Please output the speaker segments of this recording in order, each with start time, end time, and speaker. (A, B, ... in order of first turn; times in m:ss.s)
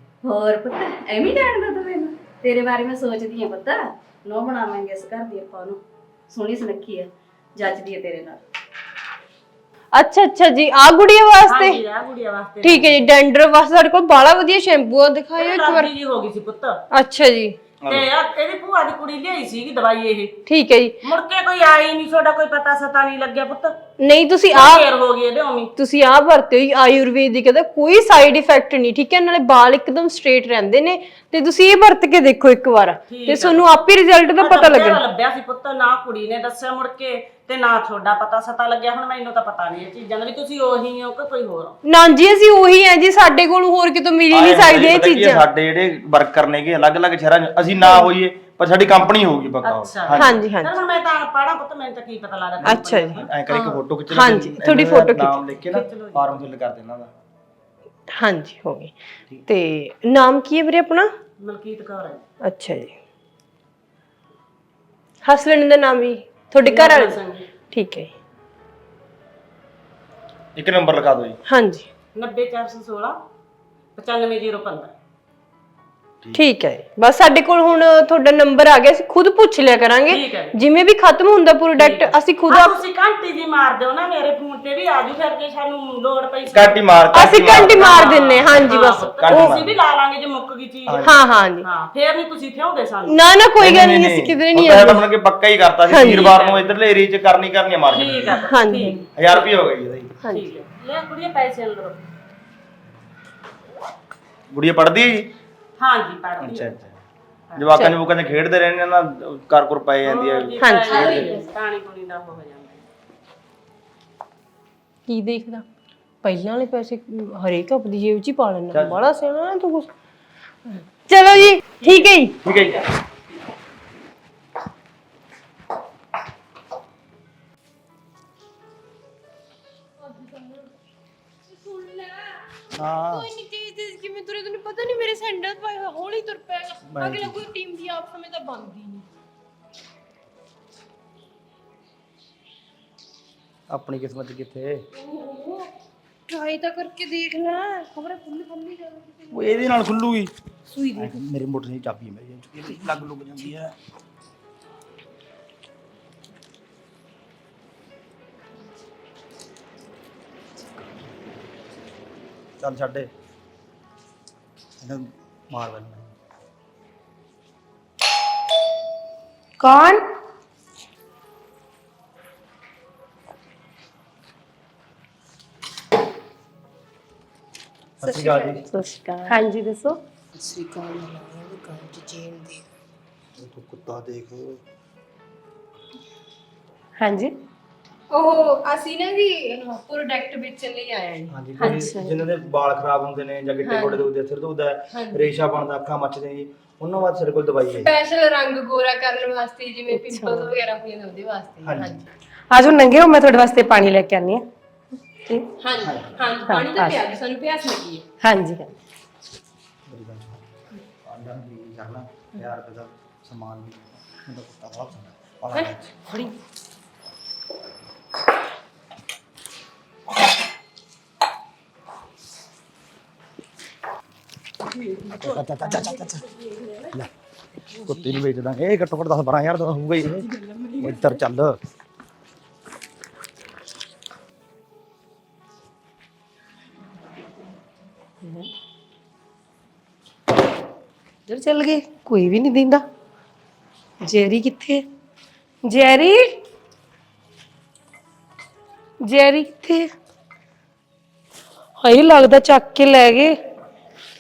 0:00.2-0:08.4 A
0:09.9-0:11.8 B
0:11.5-0:13.0 C
0:12.6-0:15.9 B
0:15.4-0:16.8 C
0:16.9-0:17.6 B
0:17.9-0:20.3 C
0:20.4-0:21.0 B
0:21.0-0:23.8 C
0:24.0-0:24.9 B
0:24.5-0:25.7 C
0:25.8-0:35.0 B
0:33.1-0:33.7 C
0:34.4-0:41.8 C
0:41.8-0:45.4 B
0:44.3-0:50.3 D
0:47.8-0:48.1 B
0:49.6-0:53.3 C
0:50.1-0:50.8 B
0:52.6-0:57.1 D
0:52.6-0:55.6 B
0:55.7-0:56.4 C
0:58.1-0:58.9 B
0:59.5-1:01.1 B
1:01.4-1:02.2 C
1:02.4-1:02.9 B
1:05.2-1:07.2 B
1:06.6-1:07.5 C
1:07.7-1:08.1 B
1:10.6-1:11.4 D
1:11.5-1:11.9 B
1:12.1-1:13.2 C
1:14.0-1:14.9 C
1:16.3-1:22.8 B
1:20.1-1:20.6 C
1:21.8-1:31.1 C
1:26.5-1:28.2 D
1:27.1-1:29.6 B
1:29.2-1:29.8 D
1:30.9-1:31.3 D
1:31.0-1:31.7 B
1:31.6-1:33.2 C
1:33.1-1:35.1 B
1:33.6-1:38.4 D
1:35.9-1:36.3 B
1:36.0-1:36.7 C
1:37.9-1:39.5 C
1:38.4-1:39.0 B
1:39.2-1:40.1 D
1:40.3-1:42.0 C
1:44.5-1:45.3 D
1:45.8-1:46.7 C
1:46.4-1:47.0 D
1:47.6-1:51.3 D
1:50.0-1:52.8 C
1:50.6-1:51.2 B
1:50.9-1:51.5 A
1:55.1-1:55.6 B
1:56.2-1:59.9 B
1:58.7-1:59.1 D
2:00.7-2:02.4 B
2:01.8-2:02.1 C
2:02.4-2:02.8 D
2:10.0-2:10.7 B
2:11.5-2:12.5 B
2:12.8-2:13.3 D
2:13.0-2:19.1 B
2:16.9-2:17.4 D
2:23.7-2:24.8 D
2:24.9-2:25.7 B
2:26.3-2:29.7 B
2:29.3-2:30.3 D
2:30.7-2:31.2 B
2:31.0-2:33.7 D
2:42.6-2:43.1 D
2:44.8-2:46.1 D
2:49.6-2:50.0 E
2:58.0-2:58.7 D
2:58.0-3:02.6 E
3:03.4-3:04.6 D
3:07.0-3:07.3 E
3:08.1-3:11.9 B
3:11.3-3:17.9 D
3:11.6-3:12.2 E
3:13.6-3:14.1 B
3:14.9-3:15.3 B
3:17.8-3:22.1 B
3:19.9-3:20.5 E
3:21.6-3:22.0 D
3:22.5-3:24.5 E
3:25.6-3:28.0 B
3:25.8-3:26.3 D
3:26.5-3:27.0 E
3:28.2-3:28.7 E
3:29.9-3:30.4 D
3:31.0-3:36.0 D
3:35.5-3:36.3 B
3:44.8-3:46.1 B
3:45.2-3:46.2 D
3:46.2-3:46.6 A
3:47.9-3:50.3 D
3:50.2-3:51.2 B
3:50.8-3:51.6 D
4:01.3-4:02.8 E
4:04.0-4:04.8 E
4:05.6-4:06.4 E
4:09.0-4:09.9 E
4:11.8-4:13.4 E